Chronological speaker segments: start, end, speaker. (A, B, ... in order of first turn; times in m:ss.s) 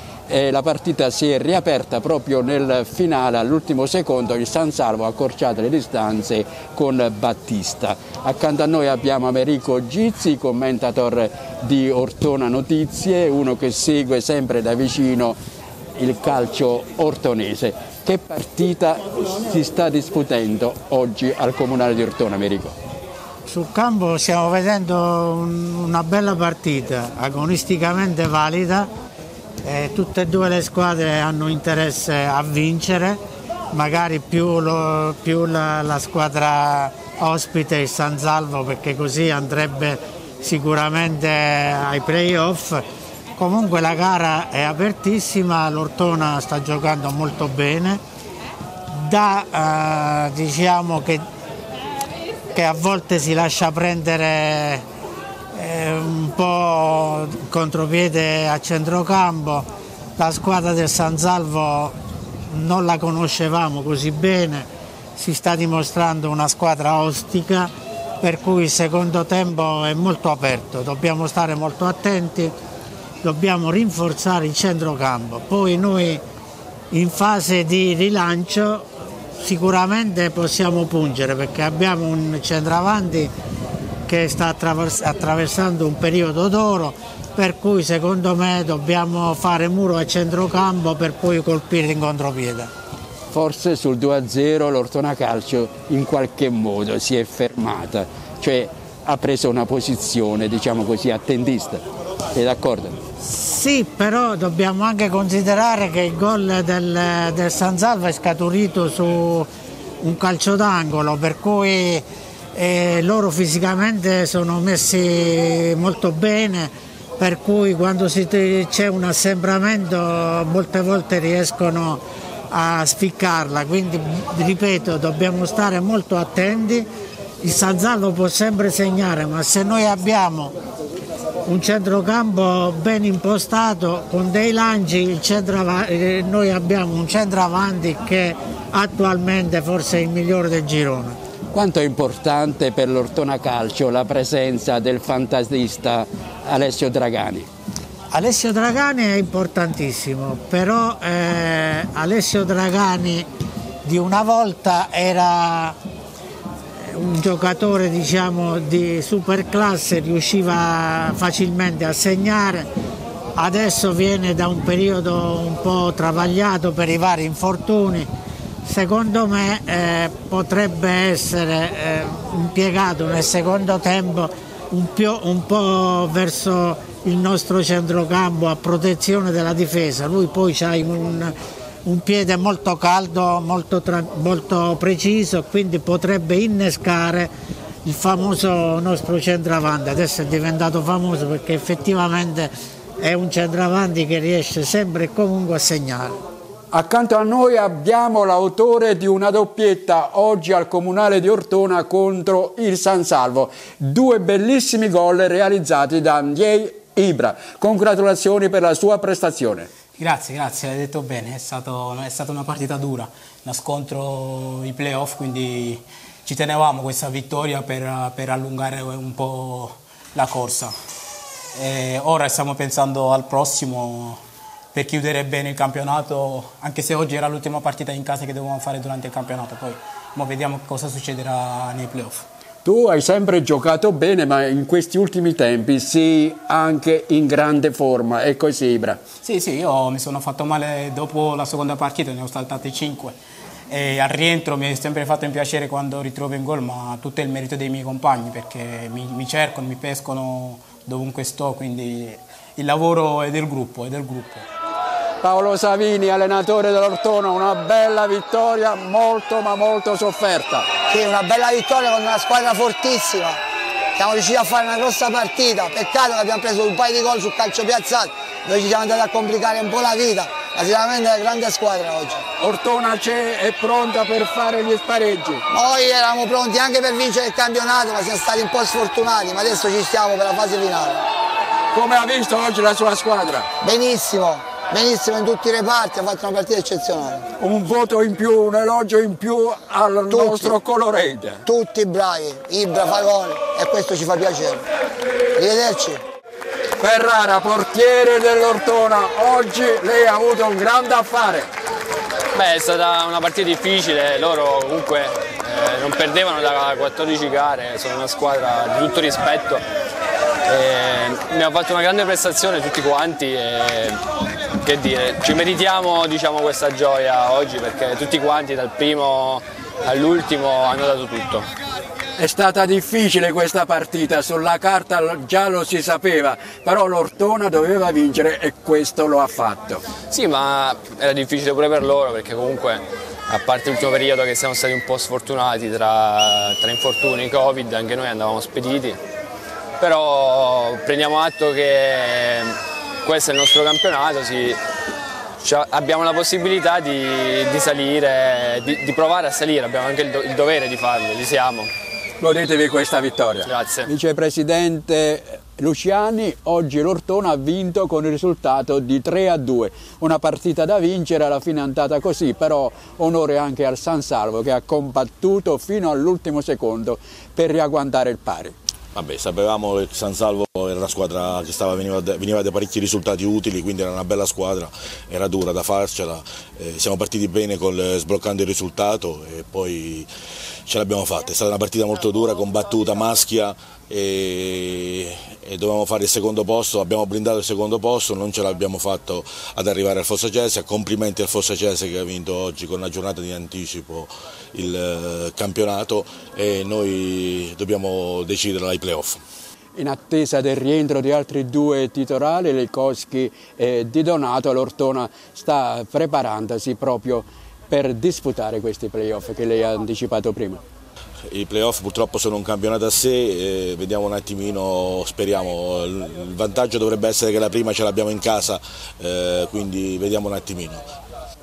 0:00.3-0:15.4 A
0:16.0-0:22.8 A
0:23.5-0:28.9 B
0:29.6-0:33.2 B
0:33.7-0:42.8 B
0:43.4-0:48.0 B
0:48.9-0:51.2 B
0:52.5-0:54.8 B
0:55.5-1:02.0 B
1:02.5-1:12.5 B
1:13.2-1:16.2 B
1:16.9-1:18.9 B
1:19.4-1:23.3 B
1:24.1-1:32.7 B
1:33.3-1:41.8 A
1:42.3-1:43.0 A
1:43.2-1:49.5 B
1:50.0-2:06.9 B
2:07.4-2:10.6 B
2:11.5-2:21.2 B
2:21.5-2:27.5 A
2:28.1-2:33.3 B
2:33.8-2:35.8 B
2:36.8-2:42.7 B
2:43.4-2:48.1 B
2:48.6-3:01.3 B
3:01.8-3:07.3 B
3:07.8-3:16.2 B
3:16.7-3:29.7 A
3:30.0-3:40.7 C
3:41.6-3:44.2 C
3:44.7-3:52.2 C
3:52.6-3:59.0 A
3:59.2-4:03.1 C
4:03.7-4:14.4 C
4:15.2-4:20.7 A
4:20.9-4:23.4 D
4:24.0-4:32.2 D
4:32.4-4:35.5 A
4:35.5-4:41.0 D
4:41.7-4:43.5 A
4:43.6-4:47.3 D
4:47.4-4:51.5 A
4:50.1-4:50.6 D
4:51.5-4:54.6 D
4:55.4-4:56.0 D
4:56.8-5:01.5 A
5:02.3-5:09.6 E
5:10.5-5:14.0 E
5:14.6-5:21.5 E
5:22.2-5:29.8 A
5:30.1-5:39.0 E
5:39.8-5:44.6 E
5:45.4-5:51.7 E
5:52.2-6:08.6 A
5:53.4-5:53.9 E
6:08.9-6:20.1 F
6:20.7-6:39.2 F
6:39.8-6:50.6 A
6:51.3-7:00.9 F